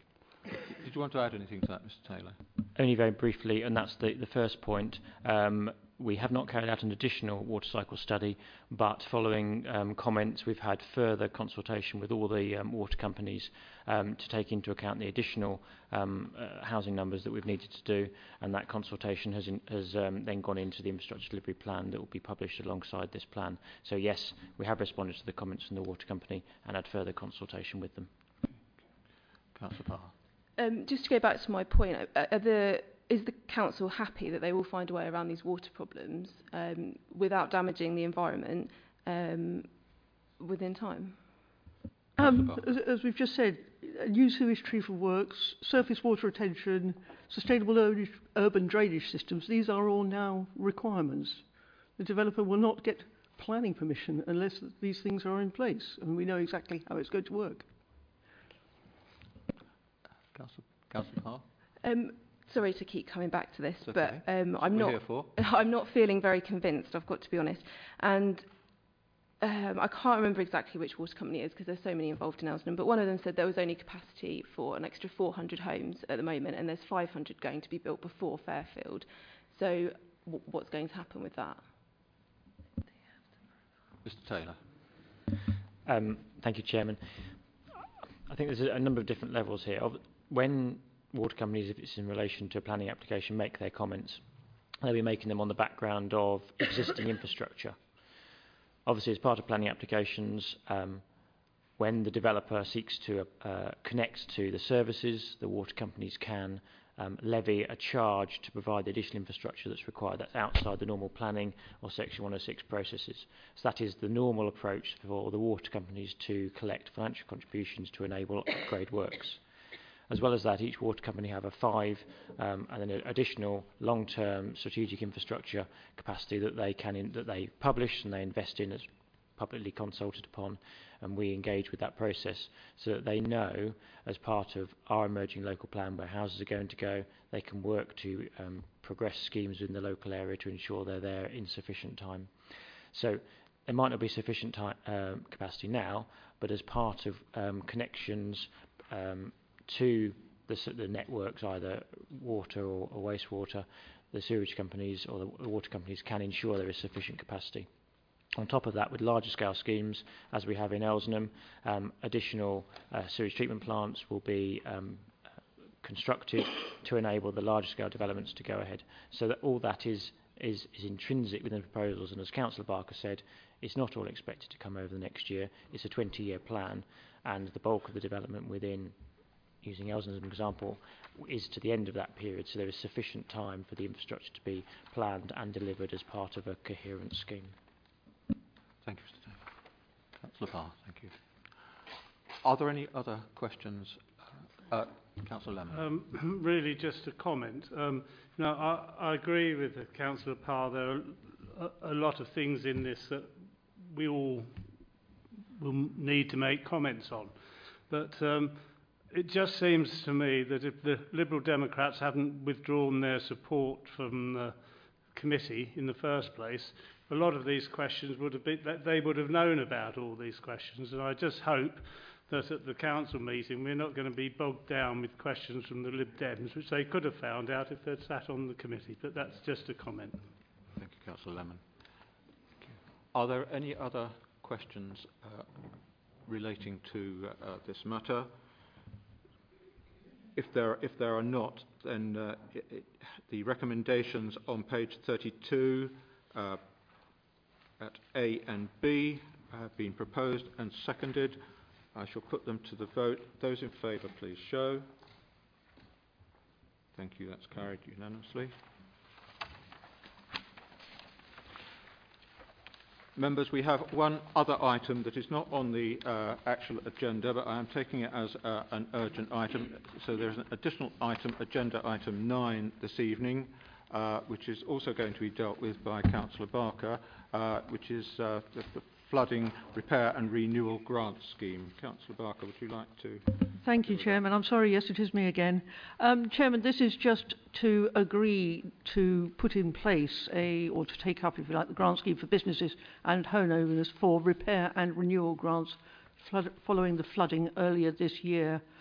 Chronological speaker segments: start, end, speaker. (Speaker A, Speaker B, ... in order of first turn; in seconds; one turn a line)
Speaker A: 0.7-2.4
Speaker B: 2.8-28.1
Speaker A: 29.6-30.1
Speaker C: 30.6-39.7
Speaker C: 40.4-41.2
Speaker A: 42.2-42.6
Speaker D: 42.2-51.4
Speaker D: 52.0-57.7
Speaker A: 60.3-61.5
Speaker C: 61.8-68.5
Speaker A: 63.8-65.3
Speaker C: 69.4-81.6
Speaker A: 84.0-84.6
Speaker B: 85.8-87.0
Speaker B: 88.3-94.2
Speaker B: 94.8-97.8
Speaker B: 98.9-101.0
Speaker B: 101.8-119.4
Speaker B: 120.1-142.3
Speaker B: 142.9-157.7
Speaker B: 158.3-165.1
Speaker B: 165.8-178.9
Speaker B: 179.6-187.6
Speaker A: 188.8-189.5
Speaker A: 190.2-191.2
Speaker A: 192.4-194.1
Speaker A: 194.7-195.9
Speaker E: 195.7-204.6
Speaker E: 205.6-214.6
Speaker E: 215.1-230.3
Speaker A: 230.8-231.6
Speaker A: 232.6-235.5
Speaker A: 236.2-238.3
Speaker A: 240.4-246.6
Speaker A: 247.8-251.4
Speaker A: 251.9-254.9
Speaker A: 256.9-258.6
Speaker A: 263.2-284.2
Speaker D: 283.6-298.6